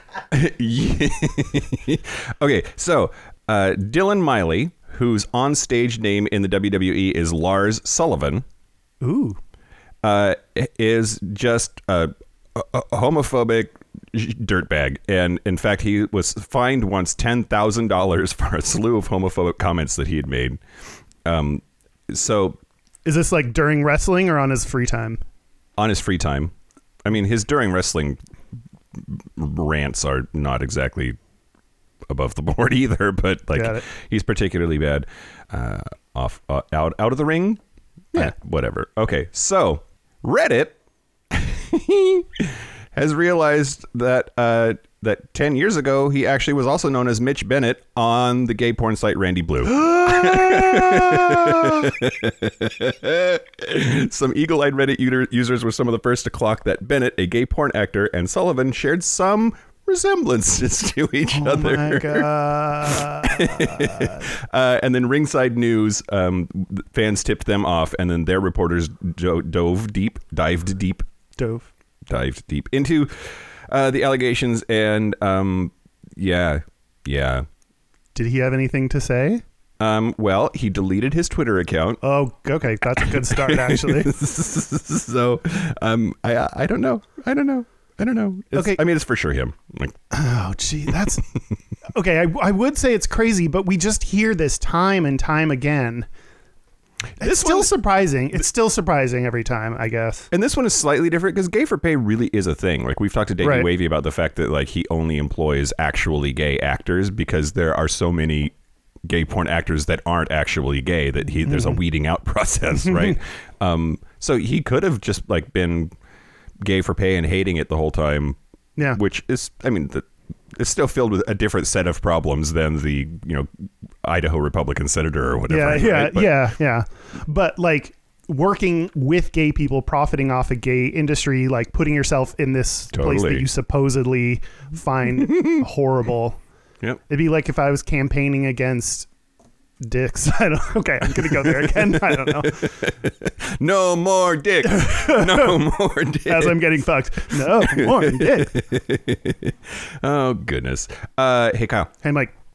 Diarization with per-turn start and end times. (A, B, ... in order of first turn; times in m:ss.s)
0:00.3-0:08.4 A
0:09.0-0:09.4 B
0:10.0-0:20.6 A
0:21.2-0:22.6 A
0:23.0-0:25.2 B
0:25.8-0:26.5 A
0:27.0-0:28.2 A
0:28.9-0:31.2 A
0:32.1-0:37.6 A
0:33.5-0:33.8 B
0:38.1-0:40.8 A
0:41.3-1:02.3 A
0:49.8-0:51.6 B
1:01.3-1:04.3 B
1:02.9-1:11.0 A
1:11.4-1:11.7 B
1:12.1-1:17.5 A
1:18.1-1:19.4 B
1:19.8-1:22.0 A
1:22.0-1:24.1 B
1:23.0-1:30.0 A
1:28.5-1:28.8 B
1:30.1-1:31.2 B
1:31.9-1:36.1 B
1:37.2-1:37.7 A
1:37.2-1:40.3 B
1:40.3-1:48.5 A
1:43.4-1:43.7 B
1:49.0-1:55.9 A
1:51.4-1:51.8 B
1:52.9-1:53.1 B
1:56.6-1:58.4 A
1:58.9-2:03.5 A
2:04.0-2:06.5 A
2:05.5-2:16.4 B
2:12.9-2:13.5 A
2:15.2-2:15.6 A
2:17.1-2:19.1 B
2:19.8-2:22.8 B
2:21.4-2:26.7 A
2:24.7-2:25.6 B
2:26.3-2:28.6 B
2:27.3-2:31.9 A
2:32.0-2:32.3 B